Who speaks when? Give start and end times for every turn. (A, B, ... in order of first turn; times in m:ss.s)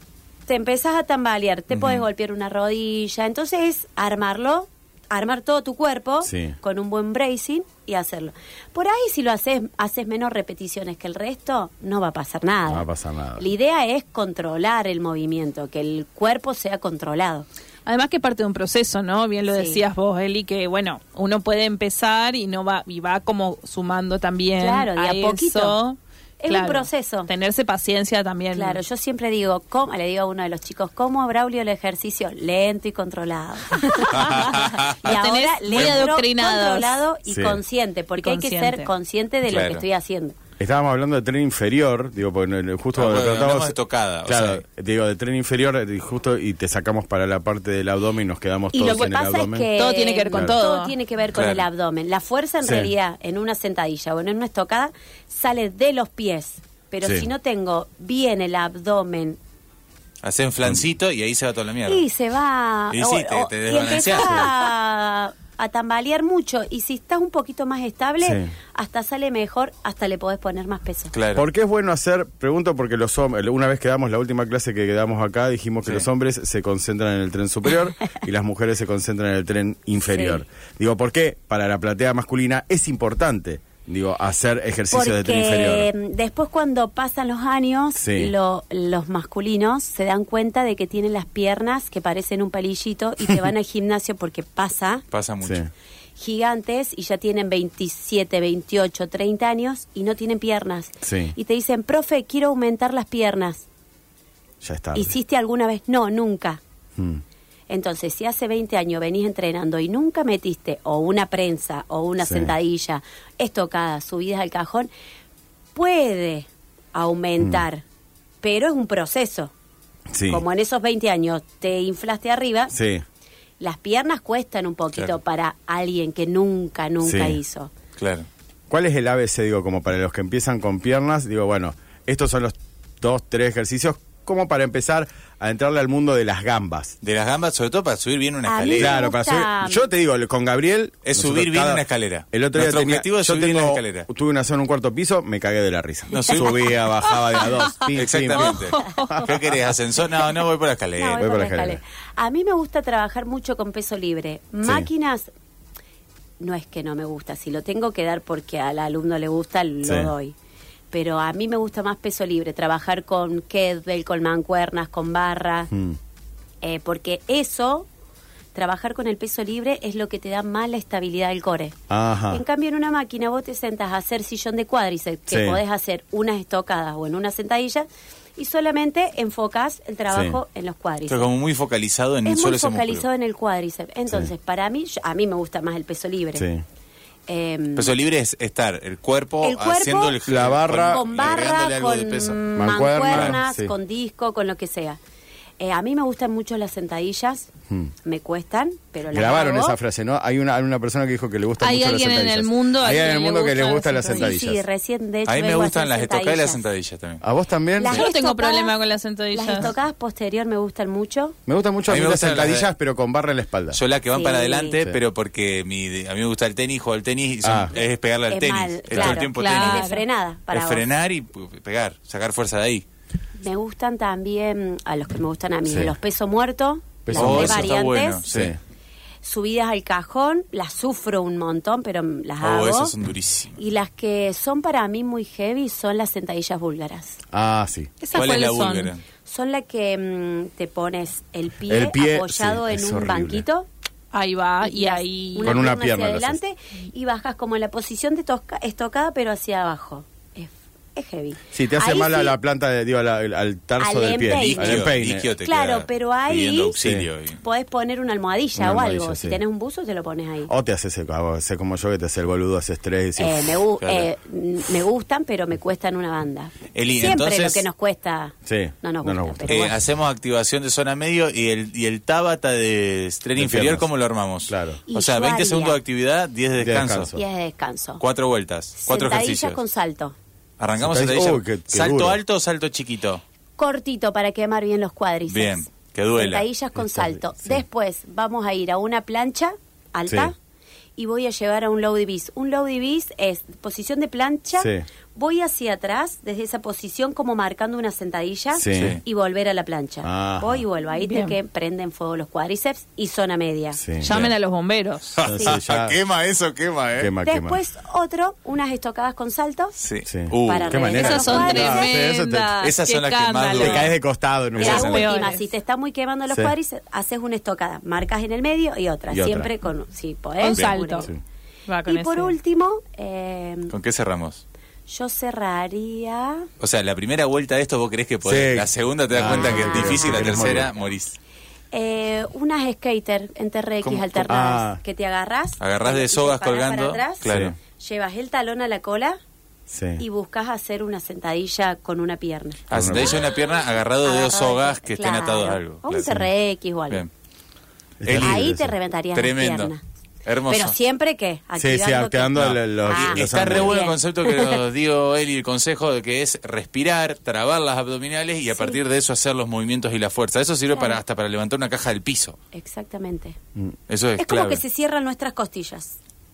0:00.5-0:17.5 A
0:01.7-0:02.0 B
0:06.2-0:06.6 C
0:12.7-0:13.4 C
0:17.9-0:28.8 D
0:19.5-0:19.8 A
0:24.6-0:25.8 A
0:26.4-0:27.3 A
0:28.5-0:40.4 A
0:33.9-0:34.5 D
0:34.1-0:35.2 B
0:35.0-0:37.0 D
0:35.7-0:36.1 B
0:37.3-0:37.6 C
0:38.2-0:38.9 D
0:39.5-0:39.8 B
0:40.6-0:49.7 C
0:42.9-0:44.6 B
0:48.7-0:59.4 A
0:48.8-0:49.1 D
0:49.8-0:50.9 D
0:50.3-0:50.6 C
0:51.3-0:51.7 B
0:52.6-0:52.9 C
0:57.0-0:57.3 C
1:00.2-1:02.0 B
1:01.9-1:11.1 A
1:02.9-1:04.5 B
1:08.2-1:08.5 C
1:11.1-1:11.4 B
1:11.3-1:25.9 C
1:20.1-1:20.4 A
1:24.9-1:35.0 A
1:27.9-1:28.3 C
1:35.1-1:35.6 B
1:35.4-1:35.7 C
1:36.2-1:43.6 A
1:41.0-1:41.3 C
1:44.6-1:45.1 C
1:44.9-1:46.6 A
1:47.0-1:47.2 C
1:47.7-1:54.9 A
1:52.2-1:52.6 C
1:55.8-1:57.8 A
1:58.4-1:59.5 A
2:00.1-2:00.4 C
2:00.3-2:02.7 A
2:02.7-2:03.0 C
2:03.6-2:07.7 A
2:07.0-2:07.4 C
2:08.0-2:08.3 B
2:08.7-2:16.9 C
2:17.0-2:19.0 B
2:18.4-2:19.9 A
2:18.8-2:29.2 C
2:21.0-2:24.1 B
2:26.1-2:26.8 B
2:27.9-2:31.2 B
2:28.5-2:29.3 D
2:31.0-2:35.3 A
2:31.2-2:31.8 C
2:34.6-2:34.9 C
2:36.4-2:40.4 A
2:39.8-2:40.1 C
2:40.9-2:45.7 A
2:45.7-2:46.0 C
2:46.6-2:47.9 A
2:48.5-2:51.8 A
2:51.9-2:52.4 C
2:52.3-2:57.9 A
2:55.3-2:55.6 C
2:58.4-3:01.3 A
3:00.1-3:00.4 C
3:01.1-3:03.0 B
3:02.2-3:06.5 A
3:06.4-3:06.6 C
3:07.3-3:07.9 A
3:07.8-3:12.4 B
3:09.4-3:10.2 A
3:10.2-3:11.0 C
3:10.9-3:15.0 A
3:12.6-3:13.8 C
3:13.1-3:13.4 B
3:15.6-3:17.5 A
3:18.0-3:19.8 A
3:19.1-3:24.6 C
3:21.6-3:24.3 D
3:24.0-3:26.6 A
3:25.2-3:27.2 B
3:27.2-3:28.0 C
3:27.8-3:28.8 A
3:27.9-3:29.7 D
3:29.3-3:31.4 A
3:31.5-3:33.8 C
3:31.9-3:32.7 B
3:33.7-3:39.9 B
3:34.1-3:34.8 A
3:37.4-3:37.8 C
3:38.3-3:40.9 A
3:39.0-3:40.0 D
3:40.5-3:42.9 B
3:43.4-3:48.2 A
3:45.7-3:45.9 C
3:47.0-3:48.6 C
3:47.1-3:48.5 B
3:49.2-3:52.9 A
3:52.4-3:53.5 B
3:53.6-3:57.2 A
3:57.3-3:57.9 C
3:58.0-3:58.9 D
3:58.1-3:59.0 B
3:59.3-4:03.7 A
4:01.7-4:03.4 C
4:04.1-4:05.6 D
4:04.6-4:12.4 A
4:05.4-4:06.4 C
4:11.5-4:15.3 C
4:13.8-4:16.8 A
4:14.3-4:17.4 B
4:16.8-4:17.1 C
4:17.4-4:20.5 A
4:18.6-4:19.4 C
4:20.5-4:23.6 C
4:23.2-4:29.7 A
4:23.8-4:24.1 B
4:26.7-4:27.6 B
4:28.5-4:29.8 C
4:29.5-4:37.1 B
4:33.4-4:33.9 C
4:34.5-4:34.8 C
4:34.9-4:35.8 A
4:36.6-4:37.2 C
4:37.1-4:38.0 A
4:38.0-4:39.6 B
4:38.8-4:40.2 A
4:40.6-4:43.2 B
4:40.8-4:42.2 C
4:43.6-4:50.4 A
4:45.3-4:46.5 B
4:46.8-4:47.6 C
4:51.0-5:03.8 A
4:54.6-4:54.8 C
4:58.5-4:59.0 C
4:58.7-4:59.0 B
5:00.0-5:00.6 C
5:00.9-5:01.3 D
5:03.8-5:04.2 C
5:04.0-5:05.5 D
5:04.1-5:04.3 B
5:05.1-5:07.1 B
5:05.2-5:06.0 C
5:07.0-5:07.6 C
5:07.2-5:09.8 A
5:09.8-5:11.0 B
5:10.0-5:12.7 C
5:10.4-5:12.0 A
5:10.9-5:13.9 D
5:12.6-5:14.0 B
5:13.4-5:15.0 C
5:14.6-5:15.1 B
5:14.6-5:15.4 D
5:14.6-5:21.1 A
5:19.1-5:19.5 C
5:20.4-5:21.1 D
5:21.7-5:22.3 D
5:21.9-5:23.7 A
5:23.7-5:24.4 B
5:24.9-5:26.5 A
5:26.6-5:31.2 B
5:28.2-5:30.7 C
5:29.3-5:30.2 A
5:31.7-5:39.2 A
5:33.8-5:34.2 B
5:34.3-5:34.8 C
5:35.6-5:37.5 B
5:37.2-5:37.6 C
5:39.7-5:40.0 C
5:40.0-5:43.3 A
5:42.7-5:46.2 B
5:42.7-5:43.2 C
5:44.0-5:47.0 A
5:48.0-5:48.7 C
5:48.0-5:48.4 B
5:48.2-5:49.8 A
5:49.1-5:49.7 B
5:50.2-5:50.7 B
5:50.5-5:54.6 A
5:51.6-5:53.8 C
5:52.3-6:02.4 B
5:58.5-5:58.8 A
6:00.8-6:01.0 A
6:02.5-6:03.4 A
6:03.9-6:04.6 B
6:04.2-6:06.0 A